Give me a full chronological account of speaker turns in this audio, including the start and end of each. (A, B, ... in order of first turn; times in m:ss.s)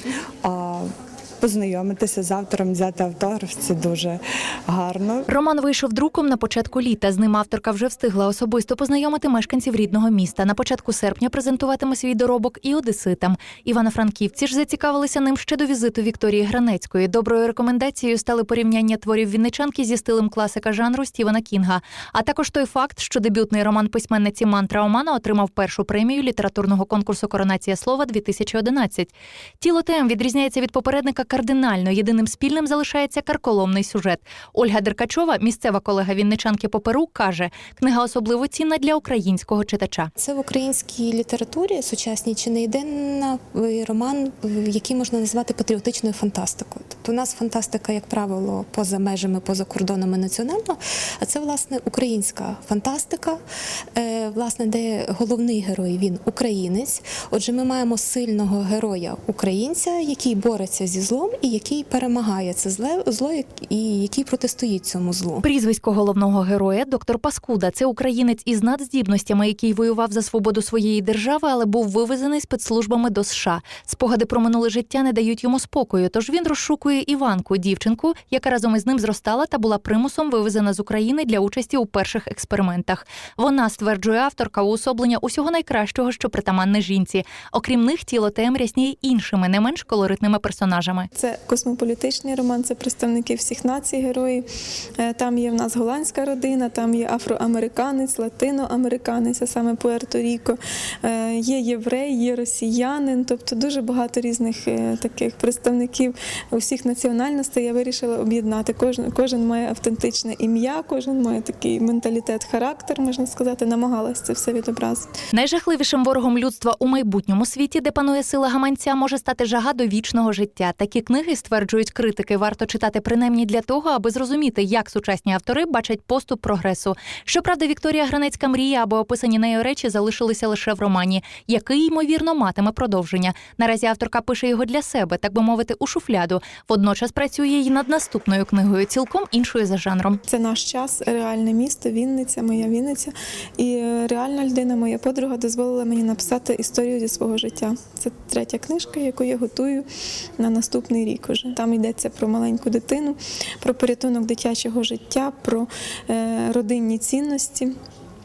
0:00.4-0:00.9 A
0:01.4-0:05.3 A
0:05.3-0:40.1 B
0:40.2-0:53.4 C
0:53.9-1:05.4 C
1:05.4-1:31.1 B
1:31.2-1:34.4 D
1:35.0-1:55.1 D
1:55.3-2:20.2 B
2:20.3-2:29.8 D
2:30.4-2:37.7 D